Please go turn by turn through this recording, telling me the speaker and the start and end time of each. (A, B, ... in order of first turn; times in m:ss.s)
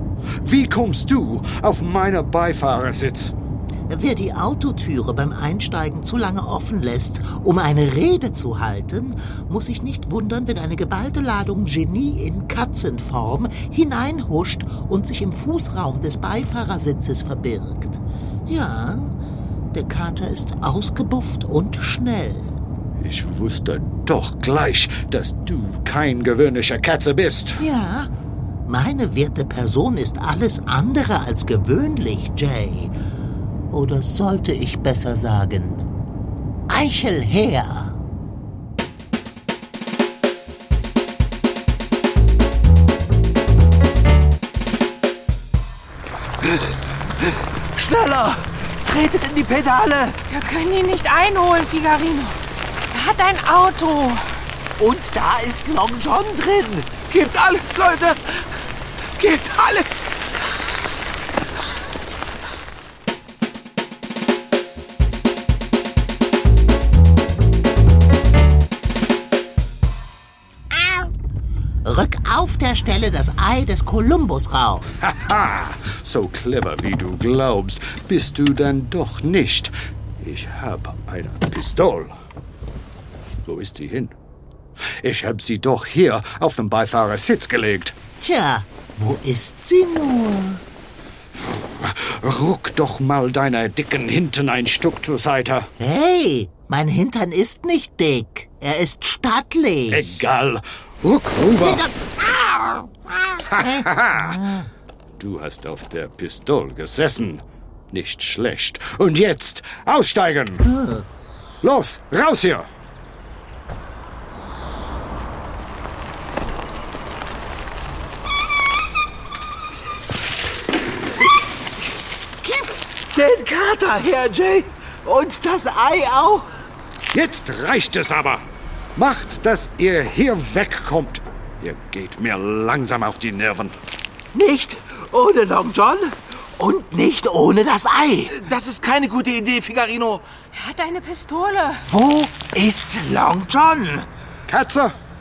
0:00.4-0:03.3 A
0:03.9-0:19.2 B
0:19.7-0:22.5 B
0:23.0-0:27.6 A
0:27.6-0:28.1 B
0:28.7-0:32.9 B
0:33.7-0:35.9 B
0:36.7-0:38.0 B
0:46.4-0:50.2 C
0:50.3-0:52.4 D
0:52.9-0:54.2 D
0:54.8-0:56.8 C
0:55.4-0:56.0 B
0:57.1-0:58.4 E
0:59.2-1:00.1 E
1:10.7-1:11.1 B
1:11.8-1:15.0 B
1:15.0-1:22.1 A
1:23.4-1:24.2 A
1:25.0-1:28.0 A
1:28.2-1:30.6 B
1:31.4-1:35.7 A
1:35.8-1:40.2 B
1:39.9-1:41.9 A
1:41.6-1:44.7 B
1:43.5-1:44.4 A
1:45.2-1:50.6 A
1:50.6-1:51.0 B
1:51.6-1:52.7 A
2:02.4-2:06.6 C
2:07.1-2:08.4 A
2:08.9-2:13.7 A
2:14.3-2:18.3 C
2:18.3-2:20.2 E
2:20.5-2:21.9 D
2:21.9-2:24.1 C
2:24.5-2:24.9 A